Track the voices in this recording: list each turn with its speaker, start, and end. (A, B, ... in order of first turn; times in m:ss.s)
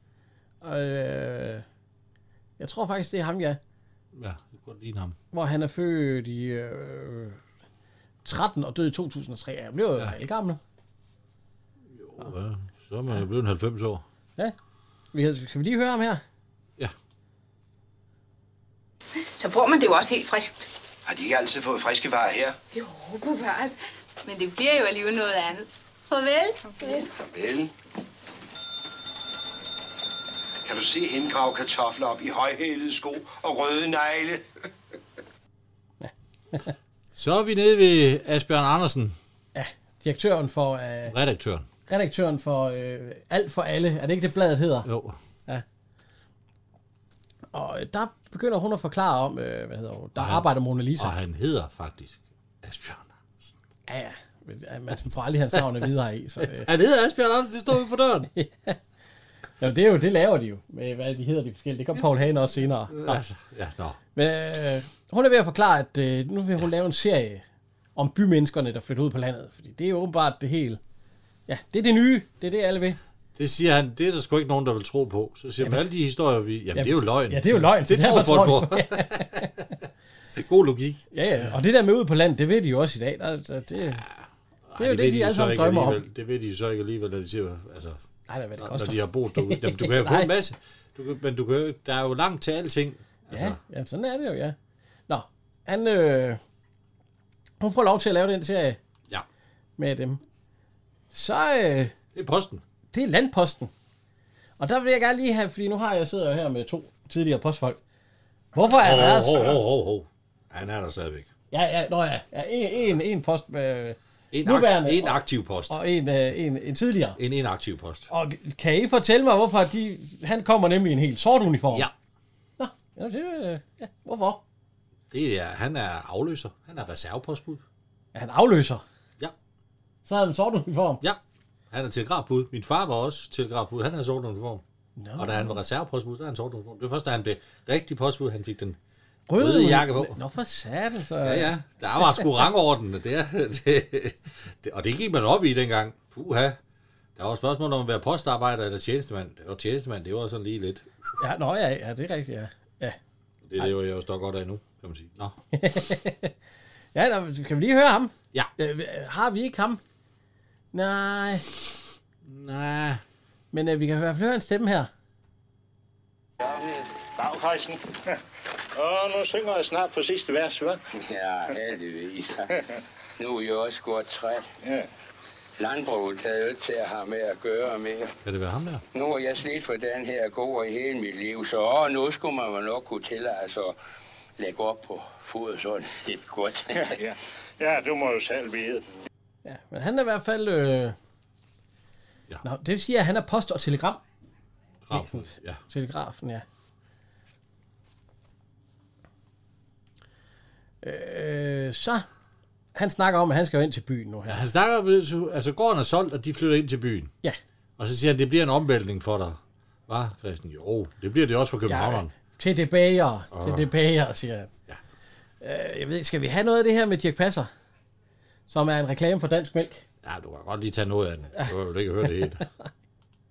0:00.6-0:01.6 A
0:02.6-0:03.6 A
0:04.1-0:05.2 B
0:05.3-0:07.4 A
0:08.2-0:10.6 A
0:11.9-0:14.0 B
0:15.1-0:16.2 A
0:19.3-0:20.7 C
0:21.0-0:22.6 D
0:22.7-0:27.0 C
0:27.2-0:27.7 D
0:30.6-0:34.4 D
0:36.0-0:36.7 A
0:37.1-0:39.2 B
0:39.5-0:41.1 A
0:41.1-0:41.7 B
0:41.9-0:44.9 A
0:44.8-0:45.2 B
0:47.5-0:51.1 A
0:50.2-0:50.4 B
0:51.0-0:53.6 B
0:53.9-0:56.7 A
0:56.4-0:58.3 B
0:58.3-0:58.8 A
0:59.6-1:03.2 A
1:02.9-1:04.0 B
1:04.2-1:07.4 A
1:08.0-1:10.8 A
1:11.5-1:13.0 A
1:13.4-1:19.5 B
1:16.7-1:19.6 A
1:20.3-1:21.1 B
1:21.1-1:24.0 A
1:23.8-1:28.0 B
1:24.8-1:26.0 A
1:28.3-1:30.3 A
1:28.6-1:33.6 B
1:33.3-1:34.6 A
1:35.1-1:36.4 A
1:37.6-1:38.8 A
1:39.8-1:40.2 A
1:41.1-1:41.9 A
1:42.1-1:42.6 B
1:42.9-1:43.7 A
1:44.6-1:47.8 A
1:48.5-1:49.6 A
1:48.7-1:51.3 B
1:51.5-1:57.2 A
1:54.3-1:55.8 B
1:57.2-1:58.1 B
1:58.1-2:01.9 A
2:02.6-2:04.4 A
2:05.1-2:07.6 B
2:08.1-2:08.8 A
2:10.0-2:11.0 A
2:11.0-2:14.6 B
2:15.0-2:15.6 A
2:15.2-2:18.8 B
2:19.3-2:21.5 A
2:19.4-2:20.2 B
2:21.2-2:26.6 B
2:27.2-2:30.9 B
2:31.2-2:33.0 A
2:33.4-2:35.4 B
2:35.5-2:36.3 A
2:36.9-2:39.8 A
2:40.7-2:41.5 A
2:42.2-2:43.0 B
2:43.5-2:44.9 A
2:46.4-2:46.8 E
2:47.2-2:47.8 F
2:48.8-2:50.8 F
2:51.0-2:52.5 E
2:53.2-2:54.5 E
2:55.6-2:58.1 E
2:58.2-2:58.8 B
2:58.9-3:03.8 E
3:04.4-3:07.0 E
3:06.8-3:08.8 F
3:09.4-3:11.0 A
3:12.4-3:14.0 A
3:14.8-3:15.6 B
3:14.9-3:16.4 A
3:20.8-3:22.0 A
3:22.7-3:24.4 A
3:24.3-3:27.1 B
3:27.8-3:32.1 B
3:31.7-3:34.5 A
3:33.3-3:33.7 B
3:35.4-3:37.5 A
3:38.5-3:39.8 A
3:40.0-3:42.4 B